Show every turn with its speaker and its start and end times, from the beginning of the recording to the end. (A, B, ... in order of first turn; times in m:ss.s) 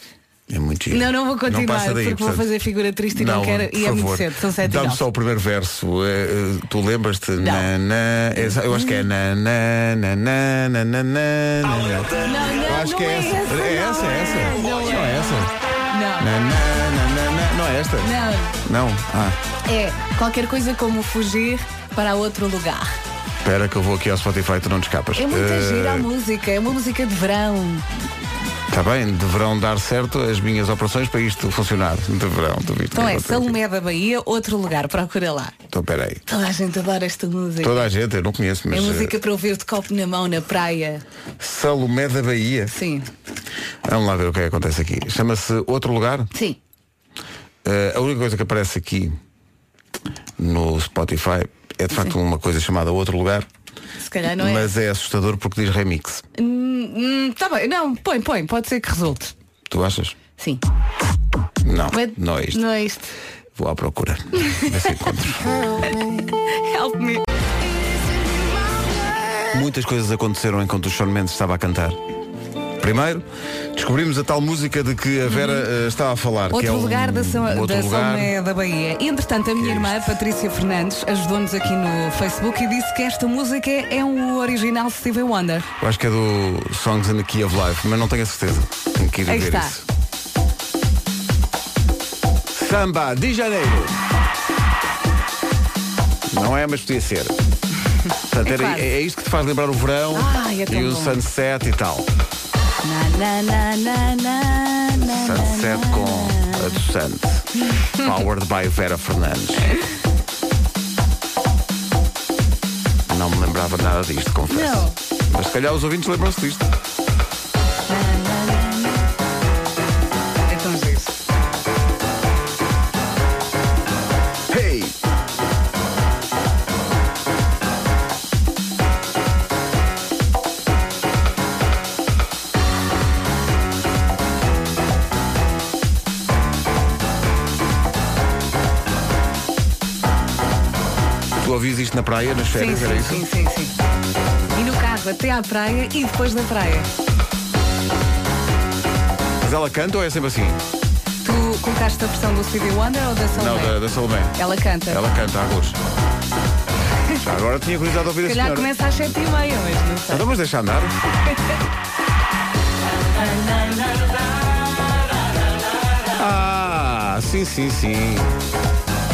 0:00.5-0:02.4 A
0:00.9-0:05.0 B
0:03.1-0:15.5 A
0:07.4-0:07.7 B
0:08.4-0:09.0 B
0:12.2-0:15.2 B
0:15.9-0:16.3 B
0:16.2-0:18.1 A
0:18.0-0:18.6 B
0:18.6-0:19.4 A
0:19.6-0:22.9 B
0:23.4-0:26.1 A
0:25.1-0:27.8 B
0:28.7-0:33.6 A
0:32.9-0:35.5 B
0:35.7-0:36.2 A
0:36.3-0:37.9 B
0:37.6-0:39.1 A
0:38.7-0:41.0 B
0:41.4-0:42.8 A
0:42.7-0:43.1 B
0:43.8-0:46.3 A
0:47.6-0:49.2 A
0:50.4-0:53.5 A
0:54.0-0:54.7 B
0:54.4-0:56.2 A
0:56.4-0:59.3 B
0:59.7-1:00.2 A
1:00.4-1:00.6 B
1:01.6-1:02.6 A
1:01.9-1:03.1 B
1:03.6-1:05.6 A
1:04.4-1:05.1 B
1:05.8-1:07.2 B
1:08.8-1:09.4 B
1:09.5-1:12.0 A
1:12.8-1:18.3 A
1:15.3-1:15.7 B
1:16.5-1:25.7 B
1:19.6-1:20.1 A
1:25.8-1:29.8 A
1:29.3-1:29.8 B
1:32.5-1:34.0 A
1:36.3-1:37.3 A
1:38.3-1:42.0 A
1:38.4-1:38.9 B
1:40.1-1:41.2 B
1:42.8-1:46.8 B
1:45.0-1:49.7 A
1:53.1-1:56.7 A
1:54.5-1:54.9 B
1:57.9-1:59.0 B
2:00.5-2:01.1 B
2:04.5-2:04.9 A
2:21.4-2:23.2 A
2:22.5-2:23.7 B
2:24.5-2:26.9 B
2:29.4-2:30.6 A
2:31.2-2:33.8 B
2:33.3-2:34.4 A
2:34.4-2:35.0 B
2:34.9-2:35.8 A
2:37.2-2:38.7 A
2:38.2-2:40.2 B
2:40.1-2:40.9 A
2:43.2-2:43.8 B
2:46.2-2:48.3 A